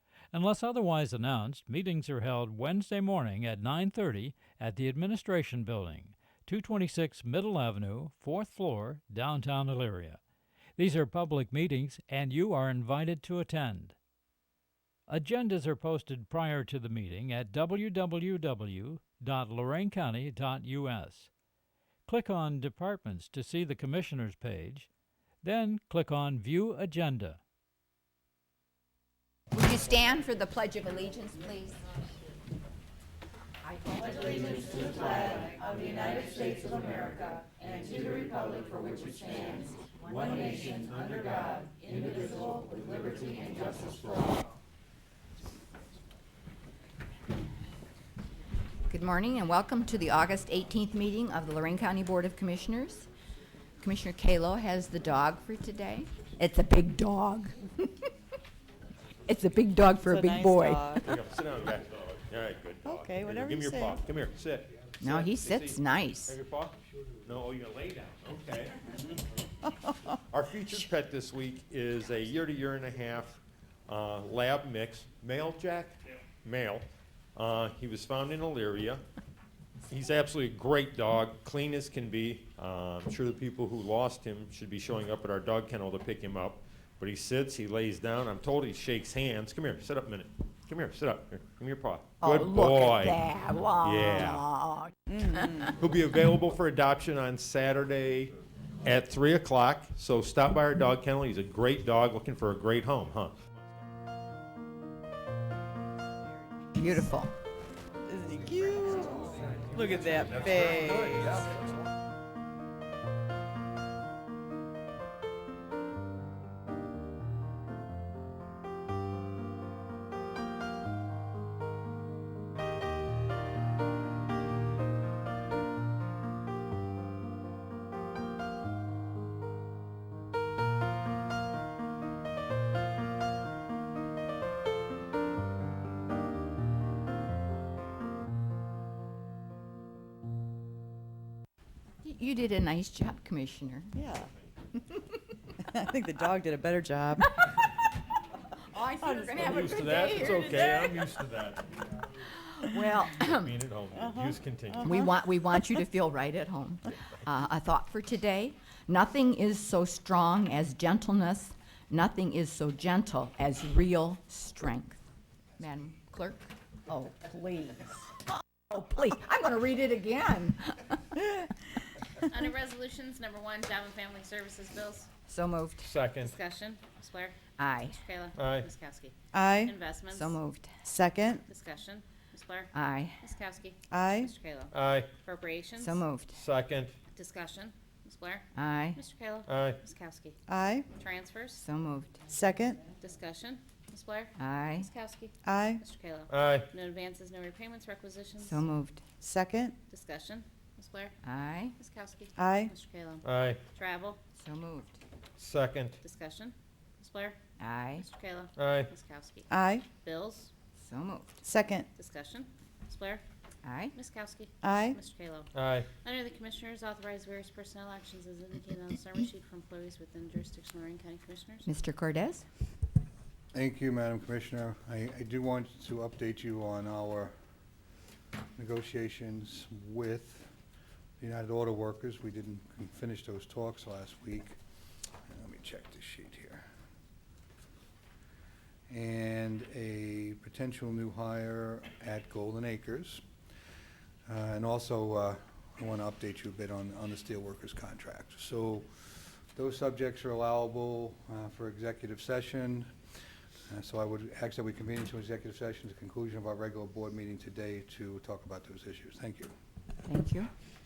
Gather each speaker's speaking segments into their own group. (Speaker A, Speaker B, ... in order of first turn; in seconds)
Speaker A: 0.3-10.2, 10.8-14.0, 15.1-21.3, 22.1-24.9, 25.4-27.4
Speaker B: 29.5-31.8, 34.1-35.0, 48.9-53.1, 53.8-58.1, 59.3-61.1, 65.0-66.4, 92.2-95.7, 106.7-107.3, 142.0-144.1, 148.7-151.1, 152.2-153.6, 154.8-165.1, 165.6-168.0, 168.7-171.7, 175.3-175.9, 177.6-178.0, 180.1-180.8, 182.7-183.2, 185.8-186.4, 188.6-189.0, 191.6-192.3, 194.4-194.9, 198.4-199.1, 201.2-201.8, 204.4-205.0, 207.6-208.1, 210.8-211.4, 213.6-213.9, 221.7-222.4, 260.1-260.5
Speaker C: 33.9-44.0, 172.2-175.1, 176.2-177.3, 177.9-180.4, 181.5-186.0, 187.1-190.4, 191.0-191.6, 193.0-198.6, 199.9-201.1, 201.8-204.2, 206.0-207.4, 208.0-210.5, 211.9-213.2, 213.9-221.7
Speaker D: 60.0-61.0, 62.9-63.9, 108.1-111.3, 144.0-144.3, 145.7-147.2, 149.1-149.4, 179.3-179.7, 180.8-181.4, 183.9-184.3, 190.5-190.9, 192.3-192.8, 195.4-195.8, 199.2-199.7, 202.4-202.7, 209.5-209.8, 211.4-211.9, 214.6-215.0
Speaker E: 61.0-66.7, 67.2-69.0, 70.1-79.0, 79.9-93.2, 93.8-94.5, 95.6-103.4, 109.6-111.5, 149.3-151.6, 153.2-155.0, 175.8-176.3, 178.4-178.7, 184.7-185.1, 186.3-186.9, 189.5-189.8, 196.3-196.7, 203.2-203.6, 205.4-206.0, 208.6-208.9, 215.5-215.9
Speaker F: 223.5-227.3, 228.6-230.5, 231.2-234.6, 235.3-236.7, 238.9-243.2, 244.3-252.9, 253.7-259.5